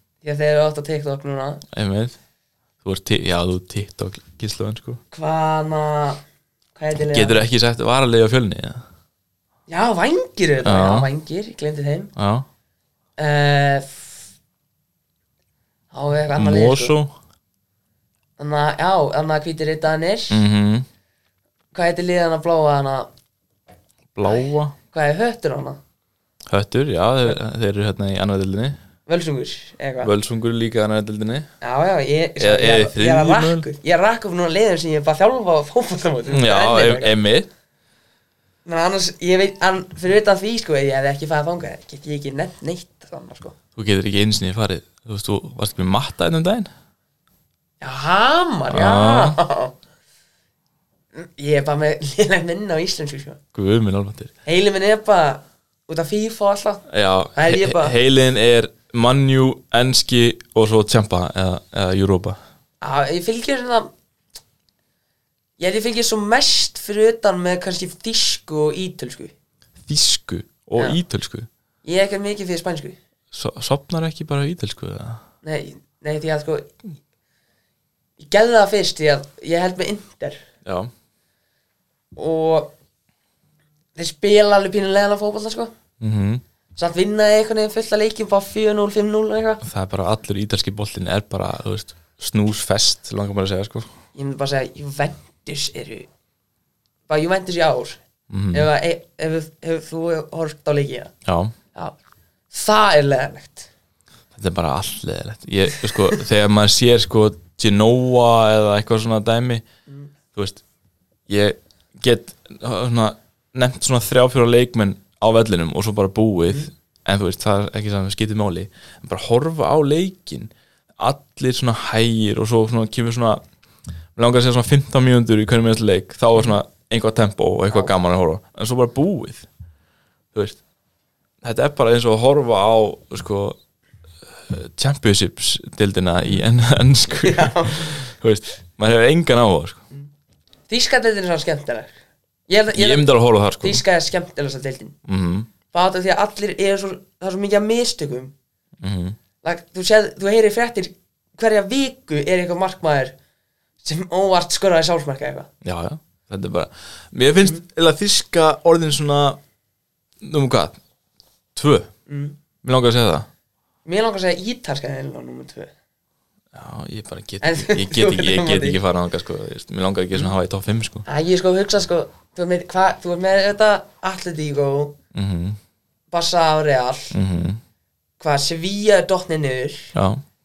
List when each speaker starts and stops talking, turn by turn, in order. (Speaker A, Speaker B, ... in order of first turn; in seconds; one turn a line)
Speaker A: 0.2-1.6
Speaker B: 1.7-2.2
Speaker B: 2.8-5.0
Speaker A: 5.1-6.2
Speaker A: 6.8-7.5
Speaker B: 7.1-8.8
Speaker A: 9.7-12.1
Speaker B: 10.6-11.1
Speaker B: 12.2-12.5
Speaker A: 13.2-14.1
Speaker A: 15.9-16.9
Speaker B: 16.3-17.1
Speaker A: 18.4-20.4
Speaker B: 20.3-20.9
Speaker A: 21.7-23.1
Speaker B: 24.1-24.8
Speaker A: 24.3-25.8
Speaker B: 26.5-28.8
Speaker A: 29.1-30.1
Speaker B: 30.0-31.5
Speaker A: 31.6-37.1
Speaker B: 32.4-33.7
Speaker B: 36.3-37.5
Speaker A: 38.7-43.6
Speaker B: 43.8-46.7
Speaker A: 47.8-49.8
Speaker B: 48.7-49.4
Speaker A: 51.1-53.4
Speaker B: 53.5-54.3
Speaker A: 54.5-58.0
Speaker B: 56.9-62.4
Speaker A: 62.8-63.9
Speaker A: 65.6-69.3
Speaker B: 69.9-71.5
Speaker A: 71.8-73.0
Speaker B: 73.3-75.2
Speaker A: 75.4-76.7
Speaker A: 78.2-80.4
Speaker B: 80.7-80.9
Speaker A: 82.2-82.7
Speaker A: 84.0-85.7
Speaker B: 86.0-86.4
Speaker A: 86.8-89.6
Speaker B: 89.6-93.9
Speaker A: 94.2-96.1
Speaker A: 97.1-98.0
Speaker B: 98.3-98.7
Speaker A: 98.5-101.1
Speaker B: 101.3-101.5
Speaker A: 102.5-103.7
Speaker B: 104.3-109.7
Speaker B: 110.3-110.6
Speaker B: 111.3-123.4
Speaker B: 124.2-129.5
Speaker B: 130.3-130.6
Speaker B: 131.4-133.6
Speaker B: 134.4-139.8
Speaker A: 137.2-138.0
Speaker A: 140.7-142.0
Speaker A: 142.5-144.9
Speaker B: 142.8-143.8
Speaker B: 145.1-145.5
Speaker A: 145.7-148.3
Speaker B: 148.8-149.2
Speaker A: 149.4-153.2
Speaker A: 153.8-155.5
Speaker B: 155.6-159.4
Speaker B: 160.2-160.8
Speaker B: 161.6-161.9
Speaker A: 162.1-162.4
Speaker B: 162.6-163.3
Speaker A: 163.8-165.7
Speaker B: 166.5-171.1
Speaker A: 167.4-168.8
Speaker A: 171.1-175.0
Speaker B: 175.1-175.6
Speaker A: 176.1-177.2
Speaker B: 177.1-177.6
Speaker A: 178.2-179.9
Speaker B: 179.9-180.2